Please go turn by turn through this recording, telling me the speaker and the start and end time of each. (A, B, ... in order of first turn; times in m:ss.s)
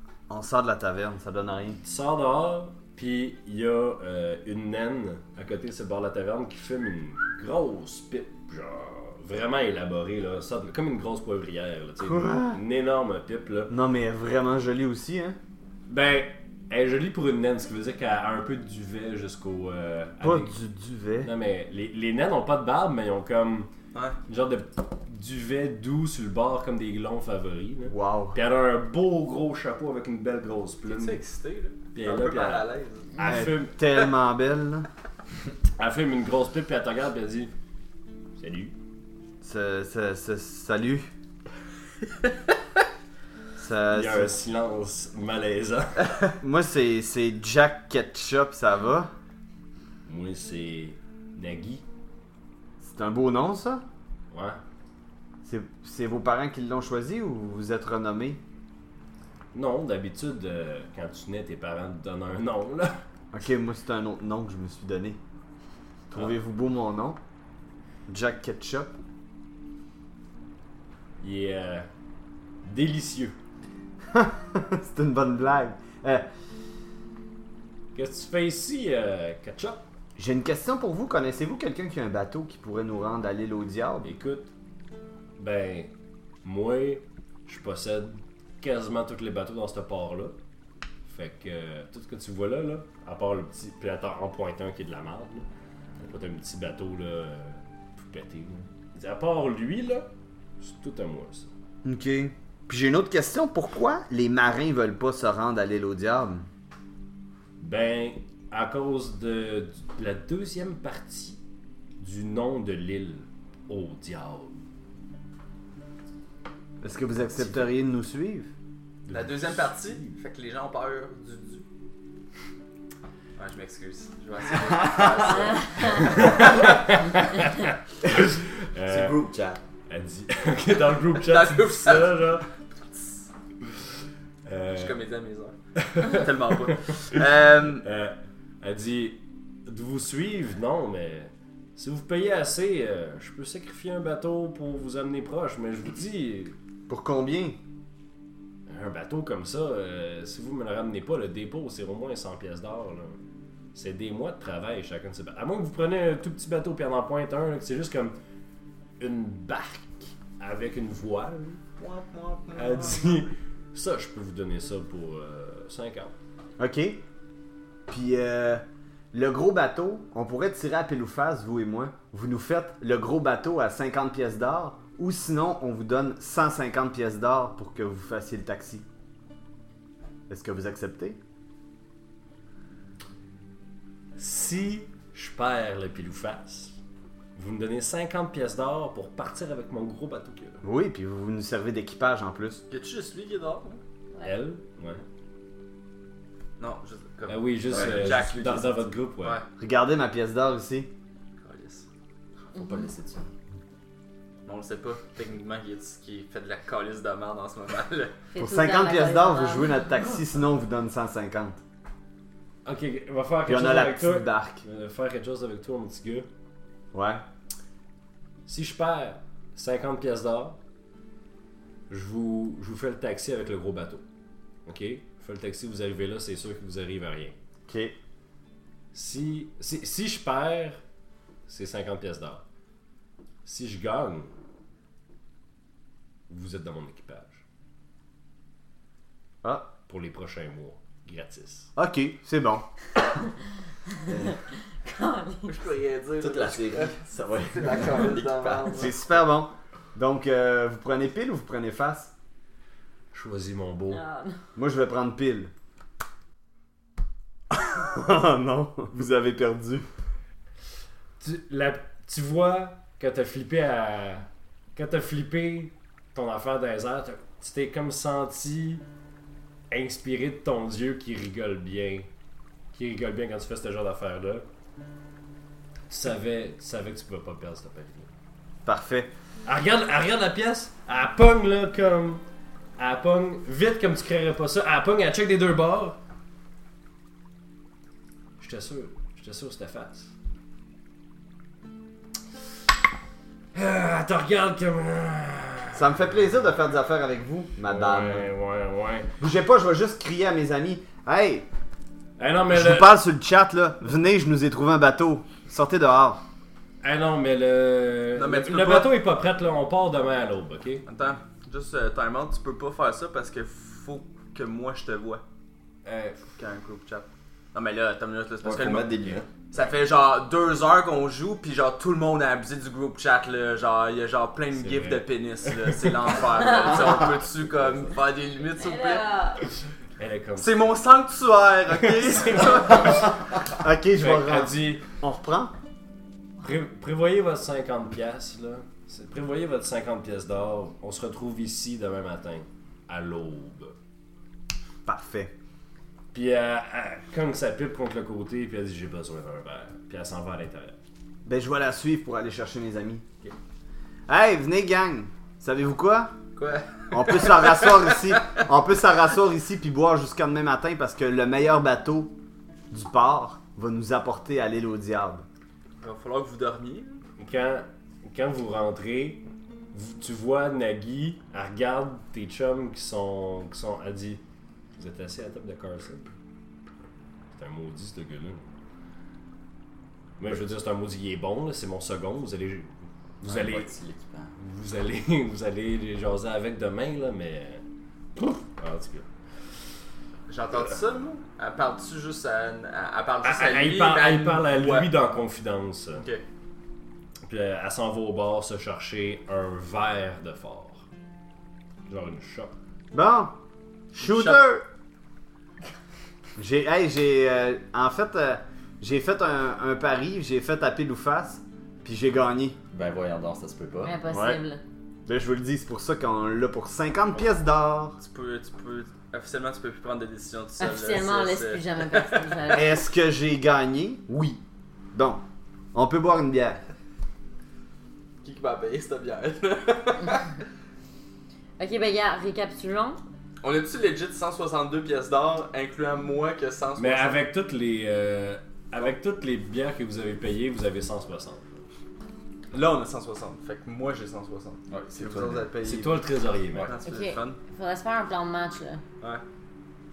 0:00.3-0:01.8 A
0:01.8-0:13.7 B
0:12.0-0:12.6 A
0:13.7-0:15.4 A
0:15.9-0:20.5 B
0:20.2-0:21.3 A
0:21.2-0:23.7 B
0:24.3-0:31.2 B
0:27.9-0:28.4 A
0:30.9-0:33.1 C
0:31.9-0:33.7 B
0:33.2-0:34.9 A
0:35.8-0:37.5 B
0:38.4-0:38.7 B
0:39.4-0:41.1 A
0:43.6-0:44.3 A
0:43.9-0:46.2 B
0:46.4-0:49.1 A
0:50.0-0:51.8 B
0:52.8-0:53.8 A
0:54.3-0:54.6 B
0:55.4-0:58.4 A
0:59.5-1:03.0 B
1:03.3-1:05.2 A
1:06.1-1:07.2 A
1:08.1-1:08.9 A
1:11.2-1:11.9 B
1:12.6-1:13.3 B
1:14.1-1:16.3 A
1:17.9-1:19.8 B
1:20.2-1:24.1 A
1:24.0-1:24.5 B
1:25.4-1:25.9 B
1:26.4-1:30.4 B
1:31.1-1:35.4 B
1:36.0-1:40.1 B
1:40.6-1:41.5 B
1:41.8-1:46.5 A
1:47.6-1:51.4 B
1:52.0-1:54.6 B
1:56.8-1:58.5 A
1:59.1-2:00.1 B
1:59.1-2:01.6 C
2:03.4-2:06.8 C
2:05.8-2:09.2 B
2:08.8-2:09.6 D
2:09.9-2:12.4 B
2:11.2-2:13.3 C
2:14.4-2:15.0 B
2:14.7-2:17.8 C
2:15.8-2:17.2 B
2:17.8-2:26.5 B
2:26.9-2:27.6 A
2:28.7-2:33.2 B
2:33.7-2:38.1 B
2:39.0-2:41.6 B
2:41.8-2:43.1 C
2:42.5-2:46.1 B
2:46.6-2:47.0 A
2:47.9-2:58.8 A
3:00.3-3:01.2 A
3:04.2-3:06.8 B
3:07.3-3:10.6 B
3:10.6-3:12.6 A
3:12.7-3:13.8 C
3:14.2-3:15.0 B
3:16.6-3:19.4 C
3:17.3-3:19.4 B
3:17.7-3:18.2 D
3:19.6-3:20.9 A
3:21.4-3:21.8 C
3:22.4-3:23.3 D
3:24.4-3:28.2 C
3:28.3-3:29.7 E
3:28.4-3:31.6 A
3:32.6-3:36.3 B
3:33.4-3:34.6 A
3:36.9-3:37.2 A
3:38.5-3:40.6 B
3:41.9-3:44.0 B
3:44.6-3:47.4 B
3:47.7-3:48.0 A
3:48.9-3:50.8 B
3:51.5-3:52.4 B
3:53.4-3:54.3 B
3:56.3-3:57.4 B
3:59.8-4:01.7 B
4:01.8-4:02.7 A
4:04.8-4:05.5 E
4:05.5-4:08.9 C
4:06.2-4:08.9 D
4:08.7-4:12.1 A
4:13.1-4:14.0 B
4:13.9-4:14.4 E
4:14.5-4:15.5 A
4:17.5-4:19.9 A
4:21.2-4:28.8 B
4:29.7-4:32.1 B
4:32.7-4:34.4 B
4:35.9-4:38.1 B
4:38.6-4:39.1 A
4:39.4-4:42.2 B
4:42.8-4:46.0 B
4:48.4-4:50.1 B
4:53.5-4:56.0 B
4:55.7-4:58.3 A
4:57.6-4:59.1 B
4:59.2-5:01.5 A
5:02.2-5:02.9 B
5:02.5-5:06.2 A
5:06.8-5:10.8 B
5:08.1-5:08.9 C
5:10.9-5:15.2 C
5:15.8-5:16.2 B
5:16.4-5:18.9 C
5:18.4-5:19.4 D
5:19.5-5:29.0 C
5:24.5-5:26.1 B
5:28.6-5:29.4 E
5:30.0-5:30.5 B
5:30.4-5:33.1 C
5:33.6-5:35.5 A
5:34.0-5:34.9 B
5:36.4-5:43.7 B
5:44.8-5:45.3 A
5:46.1-5:50.8 B
5:51.2-5:53.0 A
5:54.1-5:56.1 A
5:56.4-5:58.4 C
5:56.9-6:02.1 A
6:02.7-6:05.2 A
6:05.8-6:07.0 C
6:07.2-6:14.2 B
6:14.8-6:16.1 B
6:17.3-6:18.4 B
6:20.2-6:23.7 B
6:23.2-6:24.4 D
6:24.4-6:27.6 B
6:28.2-6:29.0 B
6:30.3-6:34.9 C
6:33.2-6:36.1 B
6:37.2-6:40.8 B
6:41.9-6:42.6 B
6:42.9-6:43.3 A
6:43.9-6:44.6 A
6:44.0-6:44.4 C
6:46.4-6:52.6 A
6:52.7-6:54.0 D
6:53.8-6:54.6 E
6:54.1-6:54.4 B
6:55.0-6:58.0 A
6:58.0-7:02.6 C
7:00.6-7:02.8 E
7:02.5-7:04.4 A
7:04.9-7:05.2 A
7:05.7-7:06.6 A
7:08.2-7:10.3 C
7:11.6-7:13.0 E
7:13.4-7:17.2 C
7:16.8-7:21.6 B
7:22.5-7:27.4 C
7:24.7-7:25.5 D
7:25.6-7:26.8 B
7:26.8-7:28.8 E